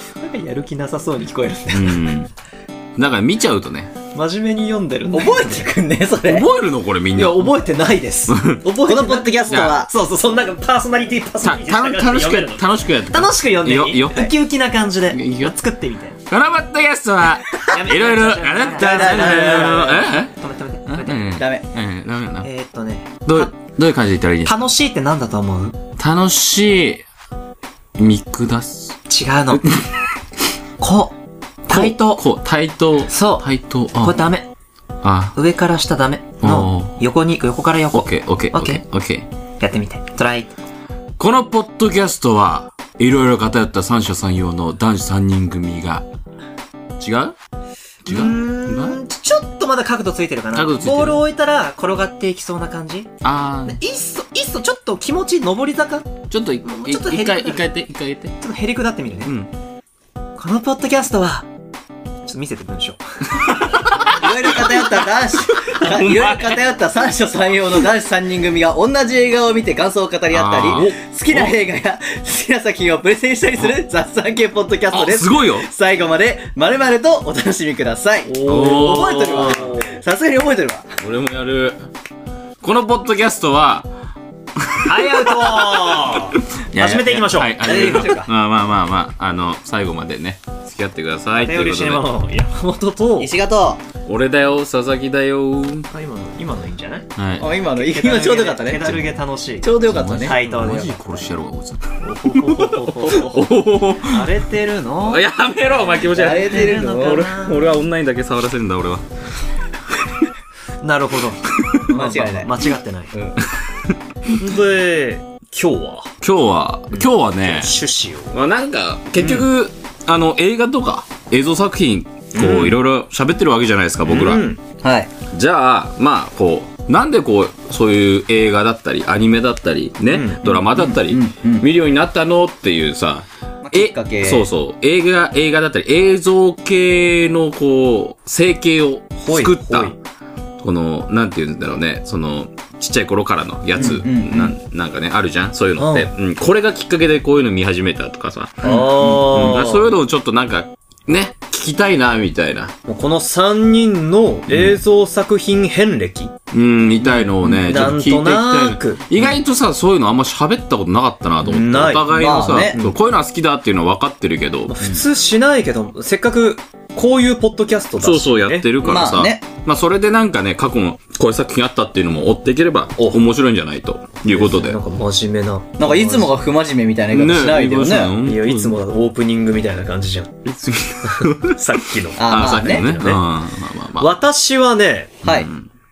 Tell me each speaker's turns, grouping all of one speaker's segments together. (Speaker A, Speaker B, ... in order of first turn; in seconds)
Speaker A: 0.2-2.0, 4.1-5.7, 7.1-16.2, 17.6-21.4, 22.4-23.5, 24.4-25.8, 29.1-29.7, 30.8-31.1, 31.7-32.2, 33.1-33.5, 34.0-34.5, 35.3-38.8, 39.6-40.5, 48.1-53.1, 53.6-56.1, 56.6-57.7, 58.4-59.3, 60.4-61.5, 62.2-63.6, 78.3-80.0, 84.8-88.3, 91.4-93.3, 95.9-97.1, 97.7-101.2, 102.0-103.5, 104.0-107.8, 110.8-113.1, 114.3-116.1, 116.9-118.3, 119.2-119.5, 122.3-122.8, 124.0-124.6, 130.1-130.4, 139.3-139.9, 145.8-146.1, 148.6-149.9, 152.9-156.3, 157.7-159.3, 161.4-163.0, 164.7-168.7, 174.3-176.3, 178.2-180.4, 181.1-183.2, 184.0-185.2
Speaker B: 1.7-2.3, 3.0-3.9, 6.2-7.5, 8.3-8.6, 9.5-9.8, 11.4-14.3, 15.1-15.5, 16.3-20.3, 20.9-22.5, 23.2-24.6, 26.0-27.0, 28.0-29.0, 31.7-34.1, 35.0-35.3, 36.4-37.0, 37.9-39.3, 41.2-46.0, 47.0-47.3, 48.0-49.0, 50.5-51.2, 53.2-53.8, 56.3-58.3, 63.3-64.4, 65.6-66.6, 70.3-71.5, 74.9-75.7, 78.4-79.7, 81.0-81.8, 82.6-83.9, 84.6-92.1, 94.0-95.9, 97.2-97.5, 99.8-104.3, 105.0-109.0, 111.6-111.8, 113.4-114.4, 116.2-117.8, 118.3-124.4, 125.3-139.9, 140.6-152.7, 154.5-154.8, 156.5-164.7, 168.0-174.8, 177.1-178.8, 180.4-181.6, 182.2-184.1, 185.3-185.7
Speaker C: 5.1-6.5, 8.8-9.9, 18.8-20.0, 21.3-21.6, 64.1-80.9, 87.6-88.3, 93.2-93.8, 97.4-99.0, 99.6-100.3, 106.1-107.3, 111.9-112.5, 113.1-113.4, 124.8-125.1, 130.4-131.7, 133.6-134.5, 143.8-144.5, 148.6-149.2, 162.1-162.8, 168.8-169.4, 175.8-178.1, 182.2-182.9, 185.2-185.5